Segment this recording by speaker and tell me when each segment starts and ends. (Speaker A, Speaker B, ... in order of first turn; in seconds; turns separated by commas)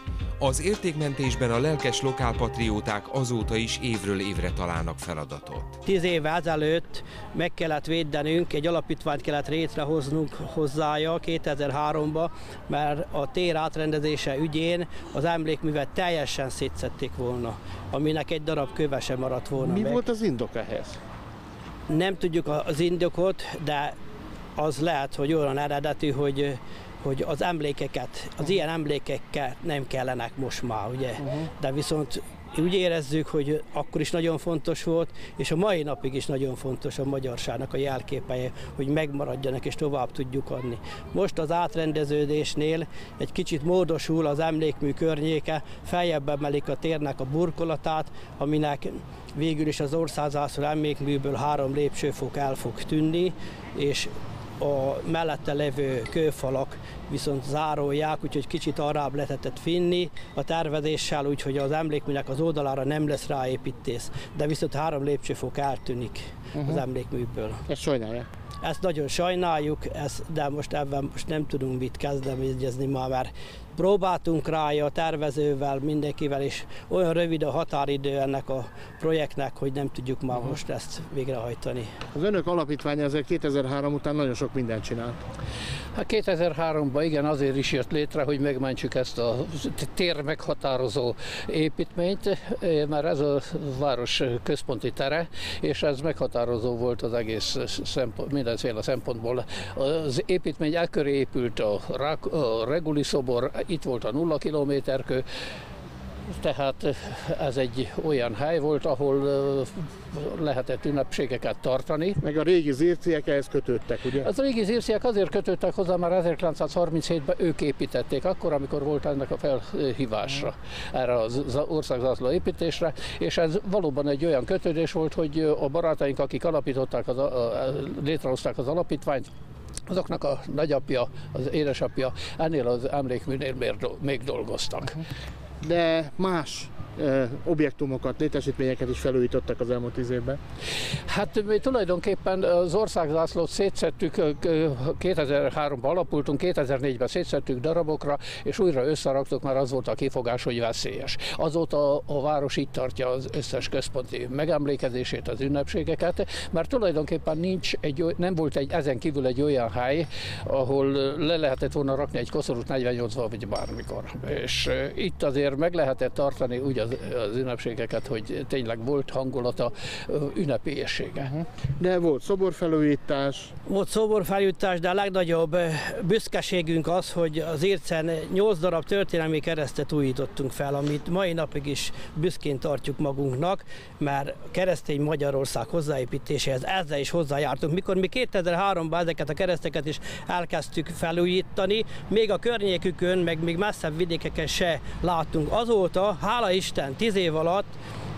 Speaker A: 0.4-5.8, Speaker B: 5.9-20.0, Speaker C: 19.6-21.0, Speaker B: 21.9-23.9, Speaker B: 24.6-67.6, Speaker C: 31.2-31.5, Speaker C: 66.6-66.8, Speaker C: 67.7-68.3, Speaker B: 68.6-81.9, Speaker C: 82.1-85.2, Speaker D: 86.0-105.3, Speaker D: 106.3-112.2, Speaker C: 112.2-114.3, Speaker D: 114.2-129.3, Speaker D: 129.9-135.0, Speaker C: 135.6-140.4, Speaker D: 141.1-171.3, Speaker C: 171.2-173.5, Speaker B: 173.7-197.7